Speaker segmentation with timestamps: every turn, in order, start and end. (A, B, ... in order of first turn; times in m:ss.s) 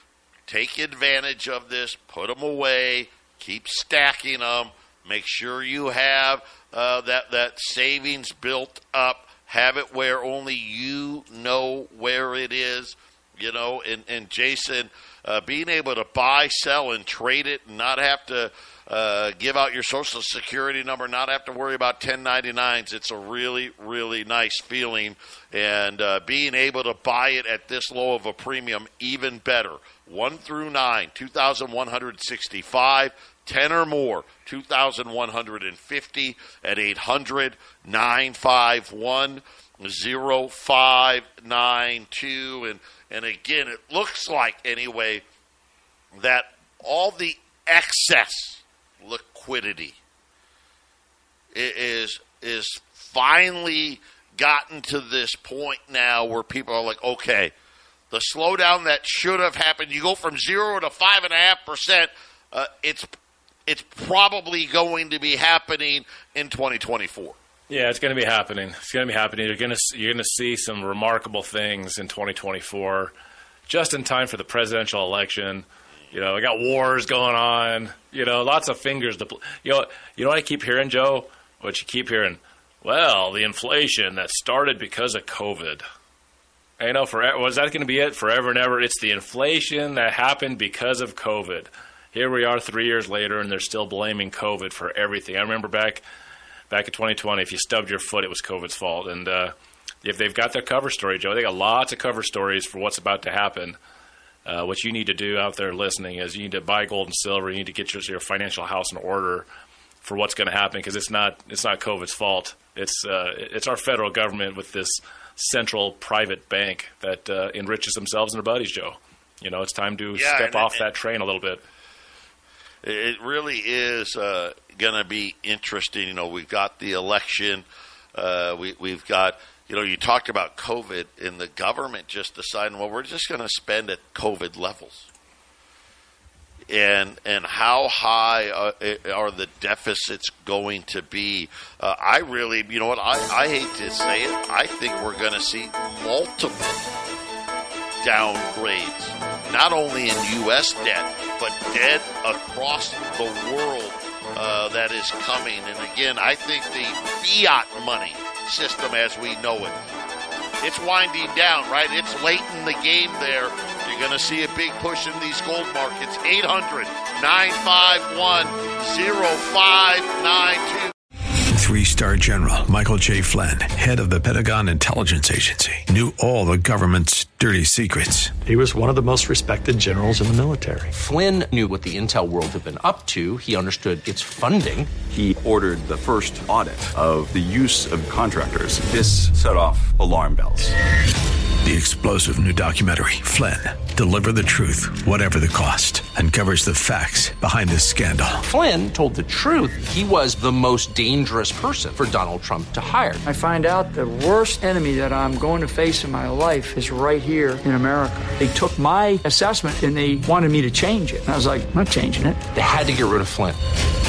0:00.5-0:45.2 A
0:46.2-0:50.0 A
0:51.5-0:57.5 A
0:58.1-1:03.1 A
1:03.7-1:07.4 A
1:07.7-1:13.1 B
1:13.7-1:25.8 B
1:26.8-1:36.0 B
1:36.7-1:43.8 B
1:44.5-1:49.5 B
1:50.0-2:01.6 B
2:00.1-2:00.8 A
2:02.8-2:15.1 A
2:16.7-2:26.8 A
2:28.0-2:39.8 A
2:40.6-2:50.9 A
2:51.5-2:58.3 C
2:58.4-3:00.9 D
3:00.9-3:04.9 E
3:05.1-3:10.7 F
3:11.6-3:18.4 C
3:18.4-3:23.2 E
3:23.2-3:32.4 G
3:32.5-3:33.6 E